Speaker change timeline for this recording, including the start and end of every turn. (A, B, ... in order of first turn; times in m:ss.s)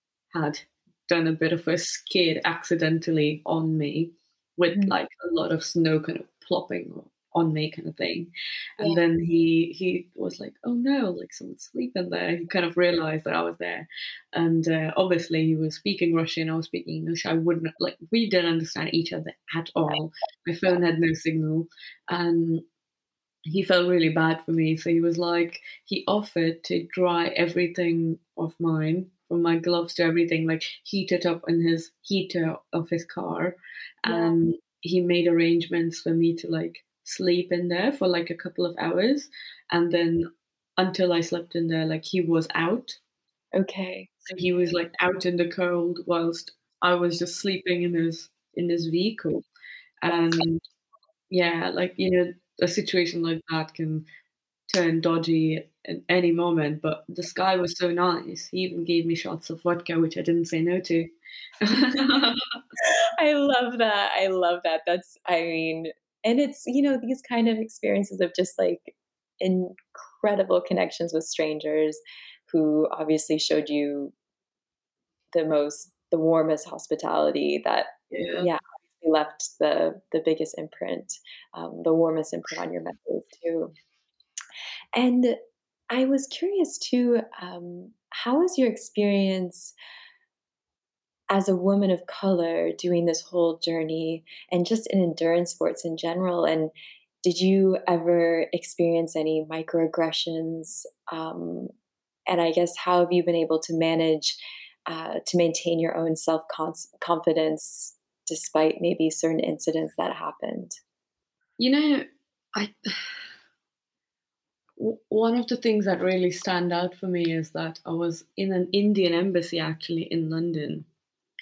0:00.3-0:22.6 A
0:23.4-0:40.2 A
0:34.1-0:34.4 B
0:40.8-0:43.0 A
0:43.6-0:44.1 B
0:44.3-0:49.4 A
0:50.0-0:50.6 A
0:50.1-0:50.4 B
0:51.3-0:54.0 A
0:54.7-1:02.6 A
1:02.8-1:14.1 B
1:15.3-1:23.7 B
1:18.1-1:18.5 A
1:24.9-1:25.4 B
1:25.9-1:29.7 B
1:31.3-1:36.7 B
1:37.2-1:41.7 B
1:42.3-1:50.8 B
1:51.6-1:53.2 A
1:54.8-2:00.9 A